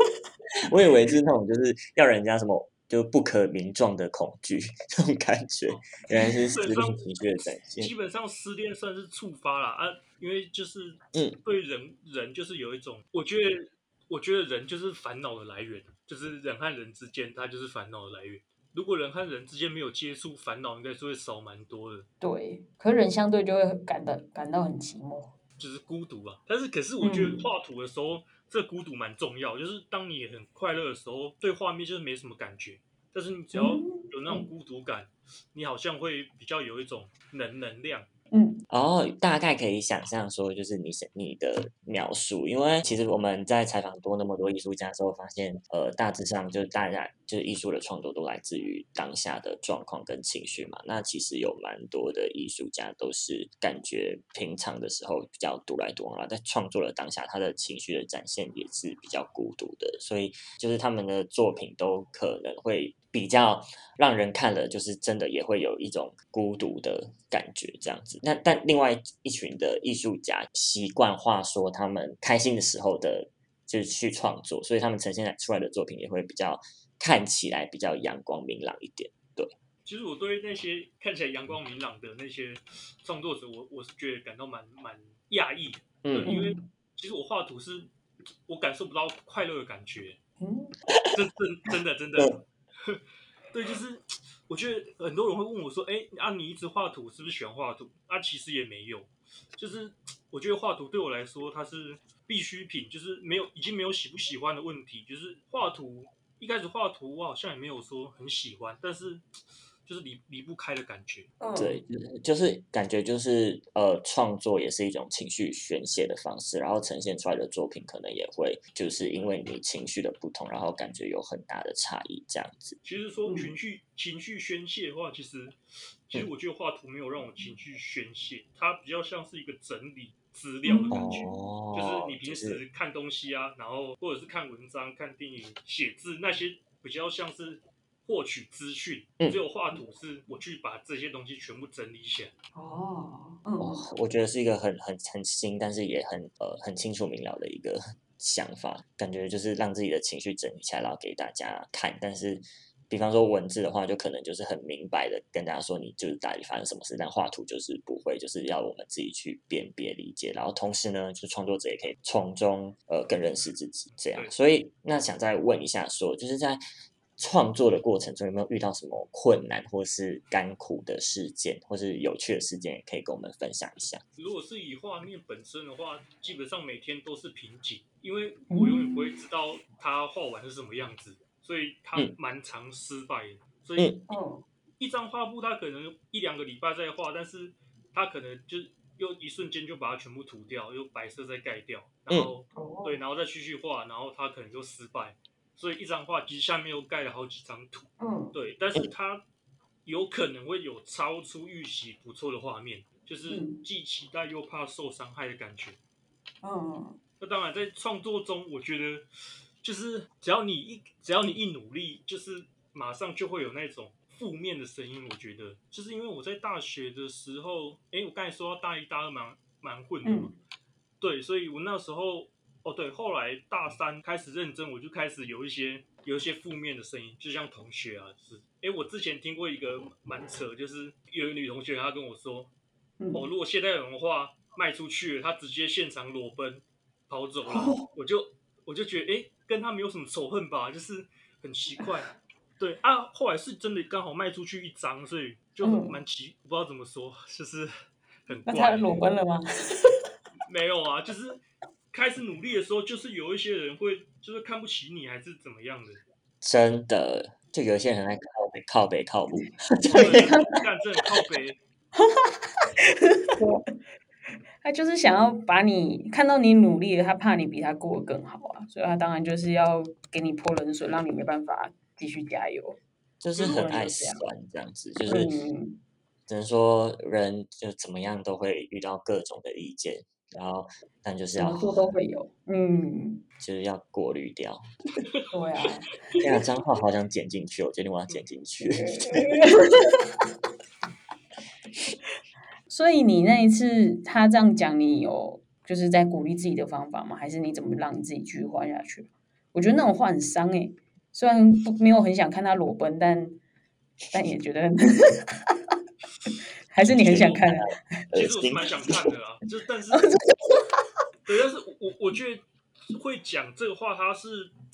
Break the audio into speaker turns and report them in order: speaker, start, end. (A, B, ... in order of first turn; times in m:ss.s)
0:00.7-0:07.9 A
0:05.7-0:22.1 B
0:22.2-0:25.3 C
0:25.6-0:38.1 B
0:27.0-0:27.5 C
0:33.5-0:34.5 C
0:38.3-0:38.6 C
0:38.7-1:19.5 A
1:19.8-1:27.9 B
1:26.0-1:26.3 A
1:26.2-1:26.6 C
1:28.5-1:30.2 B
1:30.4-1:30.7 C
1:31.1-1:49.3 B
1:49.8-1:51.3 B
1:51.4-1:51.8 C
1:51.6-2:02.8 A
2:02.8-2:05.6 B
2:03.3-2:03.6 C
2:06.1-2:22.3 B
2:10.6-2:11.3 C
2:10.9-2:12.6 A
2:22.6-2:23.9 C
2:23.6-2:46.6 A
2:44.1-2:44.3 B
2:47.2-2:54.0 A
2:54.2-3:03.9 B
2:58.5-2:59.2 C
3:03.8-3:04.0 A
3:04.1-3:04.4 C
3:04.8-3:19.2 B
3:12.5-3:13.0 C
3:18.0-3:18.4 C
3:19.8-3:25.8 B
3:23.3-3:23.6 C
3:26.4-3:27.0 C
3:27.2-3:29.1 B
3:29.6-3:40.4 B
3:40.0-3:40.4 C
3:41.0-3:52.5 B
3:53.0-3:53.3 C
3:53.1-4:07.7 B
3:57.4-3:57.9 C
4:05.6-4:06.0 C
4:08.3-4:09.0 B
4:08.5-4:09.9 C
4:10.4-4:16.0 B
4:16.4-4:20.3 A
4:19.9-4:21.6 B
4:20.0-4:20.6 C
4:24.6-4:32.8 C
4:33.2-4:35.3 A
4:33.4-4:34.3 C
4:35.1-4:35.8 C
4:36.3-4:41.8 A
4:41.4-4:43.2 C
4:43.4-4:44.6 A
4:45.3-4:45.9 C
4:46.2-4:49.3 A
4:48.6-4:50.0 C
4:52.7-5:03.4 C
5:04.1-5:05.3 C
5:06.7-5:07.7 C
5:06.9-5:07.4 B
5:07.0-5:08.9 A
5:08.1-5:10.1 B
5:09.9-5:10.4 C
5:11.3-5:14.5 B